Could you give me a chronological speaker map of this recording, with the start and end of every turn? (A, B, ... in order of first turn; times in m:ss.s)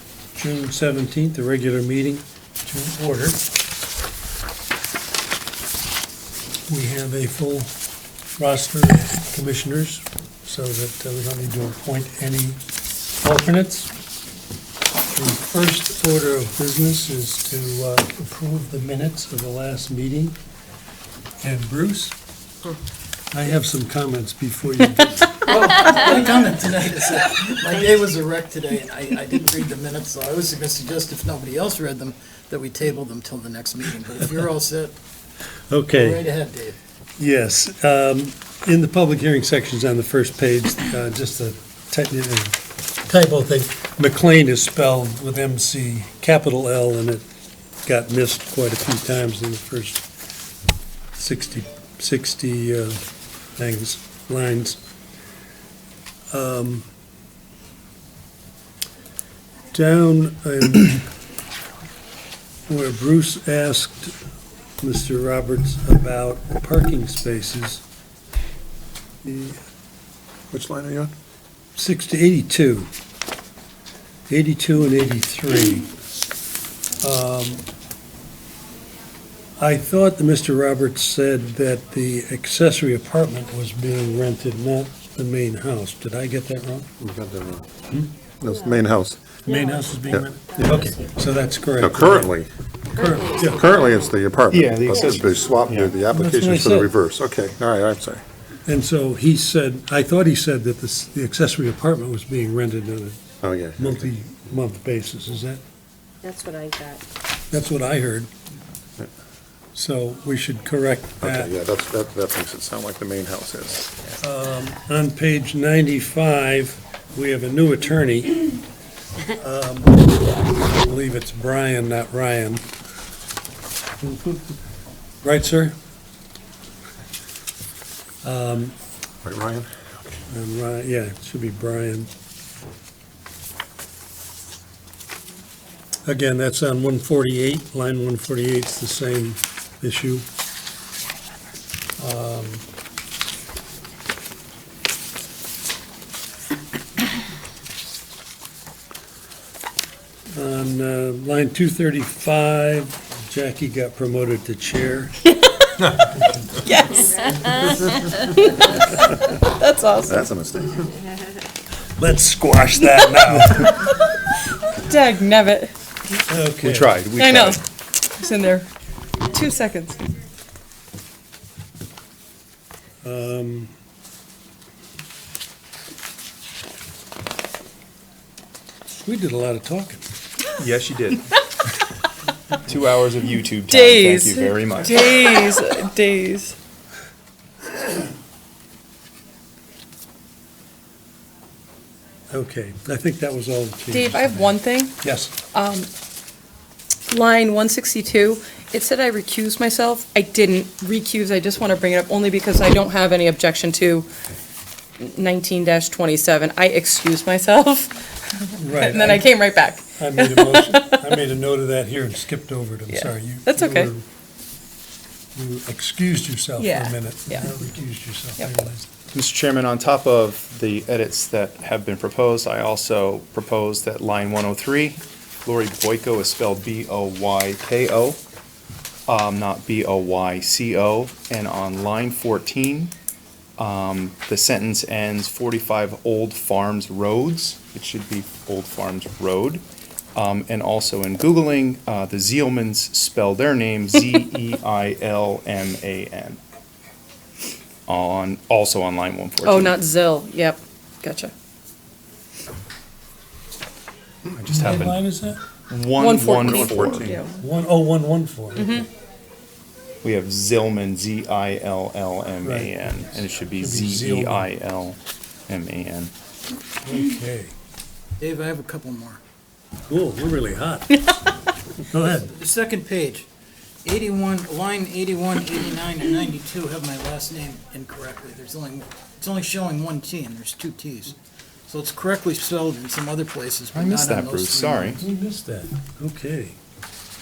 0:00.3-0:03.4 A
0:06.7-0:07.7 A
0:08.4-0:12.6 A
0:13.2-0:13.9 A
0:15.1-0:20.4 A
0:21.4-0:22.2 A
0:23.3-0:25.4 A
0:25.4-0:34.9 B
0:35.7-0:36.2 A
0:35.9-0:36.8 B
0:37.2-0:47.2 A
0:47.8-0:50.0 A
0:51.2-0:53.0 A
0:53.6-0:54.8 A
0:56.3-0:56.9 A
0:59.7-1:01.1 A
1:02.7-1:04.1 A
1:04.8-1:07.8 A
1:09.2-1:09.6 A
1:10.5-1:11.1 C
1:11.7-1:12.9 A
1:14.3-1:15.9 A
1:17.0-1:17.6 A
1:19.6-1:26.9 A
1:27.0-1:27.7 C
1:28.4-1:29.2 C
1:29.4-1:31.0 D
1:29.5-1:32.3 A
1:31.8-1:32.5 C
1:32.9-1:33.7 A
1:33.0-1:33.8 D
1:33.4-1:38.2 C
1:34.5-1:35.9 E
1:36.1-1:36.9 A
1:38.6-1:43.2 A
1:43.4-1:44.1 C
1:43.8-1:45.6 A
1:46.2-1:47.0 D
1:47.5-1:48.3 A
1:49.7-1:51.5 A
1:51.2-1:54.0 C
1:54.2-1:58.6 A
1:59.3-2:02.6 A
2:04.0-2:04.6 A
2:05.2-2:05.7 A
2:08.2-2:08.7 A
2:09.2-2:10.1 C
2:10.3-2:12.1 A
2:16.0-2:20.2 A
2:22.0-2:22.6 A
2:30.3-2:35.2 A
2:35.4-2:35.7 F
2:36.6-2:40.2 F
2:40.0-2:40.9 C
2:42.0-2:43.9 A
2:44.8-2:45.7 F
2:46.3-2:46.9 A
2:46.6-2:47.6 E
2:47.2-2:47.6 F
2:48.2-2:48.7 F
2:49.3-2:50.0 F
2:53.0-2:53.7 A
2:59.0-3:00.1 A
3:00.6-3:01.2 E
3:02.6-3:05.3 E
3:03.7-3:06.6 F
3:12.3-3:15.3 A
3:13.9-3:15.0 F
3:15.5-3:15.9 F
3:17.1-3:24.1 F
3:25.0-3:30.9 F
3:28.6-3:29.3 A
3:29.9-3:34.0 A
3:32.9-3:33.9 F
3:35.3-3:38.9 A
3:36.6-3:37.5 F
3:39.1-3:48.2 E
3:49.1-3:52.9 E
3:53.6-3:59.6 E
4:00.1-4:06.4 E
4:07.9-4:09.8 E
4:09.4-4:11.3 F
4:14.3-4:15.0 E
4:14.4-4:15.4 A
4:15.7-4:17.2 E
4:16.0-4:17.4 F
4:16.4-4:17.2 C
4:17.4-4:18.8 A
4:18.6-4:18.8 F
4:20.0-4:25.0 E
4:22.4-4:24.5 A
4:25.5-4:26.1 E
4:26.8-4:27.5 A
4:28.2-4:29.2 B
4:29.9-4:31.0 A
4:31.8-4:32.3 A
4:32.0-4:33.3 B
4:33.8-4:45.0 B
4:43.7-4:45.0 E
4:45.0-4:46.6 A